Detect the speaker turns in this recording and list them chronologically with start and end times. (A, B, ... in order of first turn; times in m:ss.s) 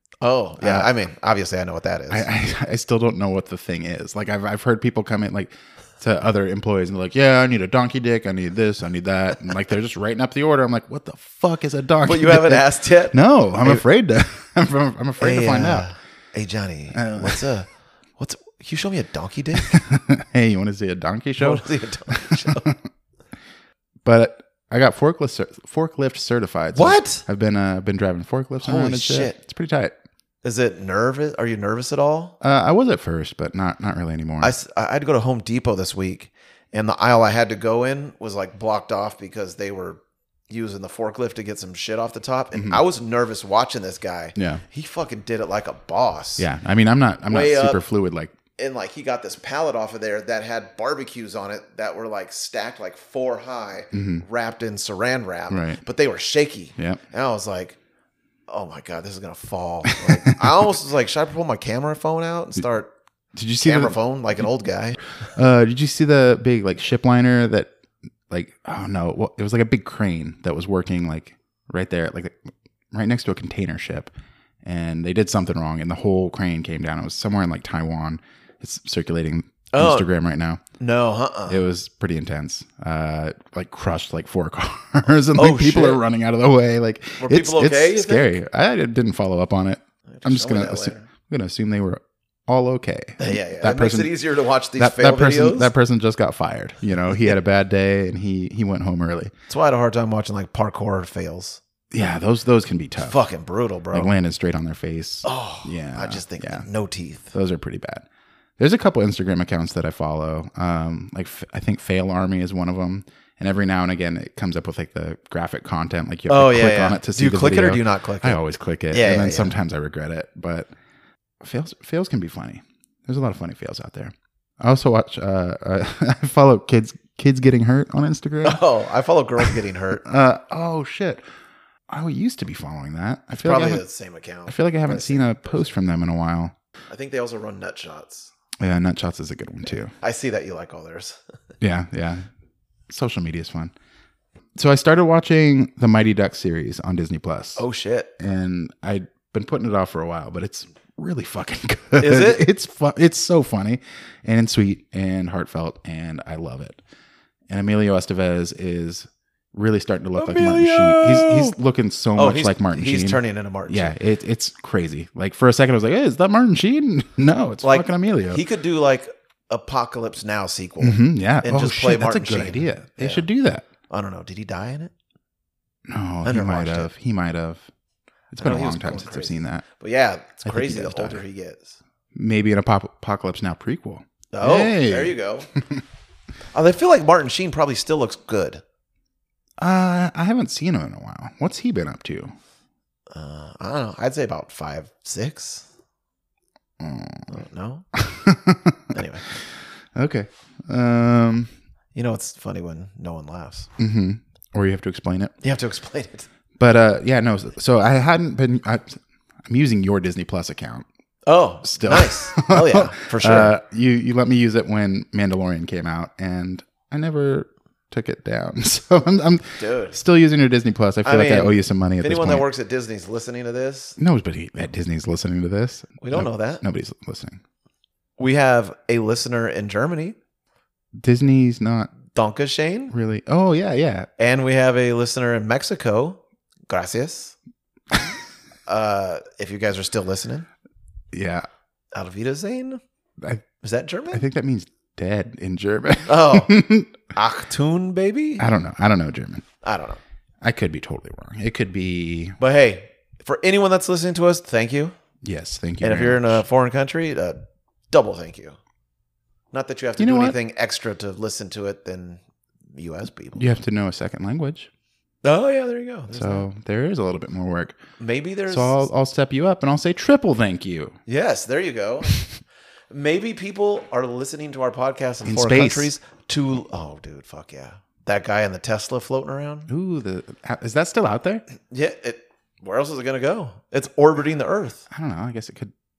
0:00.2-0:02.3 A
0:00.6-0:00.9 B
0:02.1-0:15.9 B
0:12.0-0:13.8 A
0:15.2-0:19.8 A
0:16.9-0:17.4 B
0:19.6-0:22.8 B
0:21.4-0:22.7 A
0:24.0-0:29.9 B
0:26.7-0:27.2 A
0:28.6-0:29.4 A
0:30.4-0:32.4 A
0:32.4-0:34.5 B
0:34.4-0:46.5 A
0:42.5-0:42.8 B
0:44.4-0:44.6 B
0:46.4-0:48.3 B
0:47.3-0:47.8 A
0:48.6-0:57.8 A
0:53.9-0:54.2 B
0:55.5-0:55.8 B
0:58.5-1:02.9 A
1:03.3-1:04.4 B
1:03.6-1:05.0 A
1:05.2-1:07.7 B
1:08.3-1:14.1 B
1:14.6-1:20.6 B
1:19.7-1:20.1 A
1:20.8-1:21.6 A
1:21.5-1:34.1 B
1:25.3-1:26.0 A
1:27.2-1:28.3 A
1:30.1-1:31.1 A
1:33.2-1:35.7 A
1:34.8-1:39.3 B
1:39.5-1:41.6 A
1:41.9-1:43.2 B
1:43.0-1:44.1 A
1:43.9-1:46.6 B
1:45.2-1:47.3 A
1:47.3-1:48.0 B
1:48.6-2:00.7 B
1:56.3-1:58.4 A
1:58.9-1:59.5 A
2:01.4-2:08.6 B
2:08.4-2:10.0 A
2:09.4-2:11.2 B
2:11.9-2:13.8 B
2:13.3-2:15.7 A
2:14.5-2:16.5 B
2:16.9-2:18.3 A
2:18.6-2:19.9 B
2:20.0-2:21.2 A
2:21.6-2:22.3 B
2:22.9-2:23.7 B
2:24.6-2:27.6 B
2:27.6-2:28.1 A
2:28.2-2:36.8 B
2:32.0-2:32.5 A
2:37.5-2:48.4 B
2:40.2-2:41.6 A
2:42.2-2:43.9 A
2:47.6-2:53.2 A
2:50.8-2:53.6 B
2:53.9-2:54.9 A
2:55.9-2:57.7 B
2:56.2-2:56.9 A
2:58.3-2:59.6 B
2:58.3-3:01.8 A
3:00.4-3:01.2 B
3:02.1-3:05.8 B
3:04.3-3:05.5 A
3:06.5-3:08.6 A
3:09.6-3:12.3 B
3:13.1-3:15.7 A
3:16.8-3:17.4 B
3:17.3-3:17.8 A
3:17.9-3:19.0 B
3:18.9-3:19.2 A
3:19.9-3:21.5 B
3:21.9-3:23.7 A
3:23.8-3:25.3 B
3:25.4-3:26.3 A
3:26.6-3:30.8 B
3:31.2-3:33.5 A
3:31.6-3:42.4 B
3:39.6-3:40.0 A
3:41.0-3:44.0 A
3:44.0-3:47.4 B
3:46.0-3:46.6 A
3:48.2-3:50.2 A
3:51.0-3:51.9 B
3:52.1-3:52.9 A
3:52.9-3:54.1 B
3:54.2-3:57.4 A
3:58.6-4:00.5 A
4:01.1-4:01.4 B
4:01.9-4:02.8 A
4:03.6-4:04.2 A
4:04.1-4:07.0 B
4:06.1-4:06.5 A
4:07.1-4:08.5 A
4:08.4-4:09.4 B
4:09.6-4:10.0 A
4:10.4-4:12.4 B
4:12.4-4:14.9 A
4:15.2-4:16.4 B
4:15.8-4:18.6 A
4:19.5-4:22.2 A
4:20.0-4:20.4 B
4:22.7-4:23.6 A
4:23.4-4:24.7 B
4:25.2-4:26.4 A
4:26.1-4:27.8 B
4:28.0-4:28.9 A
4:28.5-4:31.0 B
4:31.0-4:32.2 A
4:32.9-4:39.7 A
4:35.2-4:35.9 B
4:39.7-4:41.4 B
4:41.6-4:44.8 A
4:44.9-4:45.7 B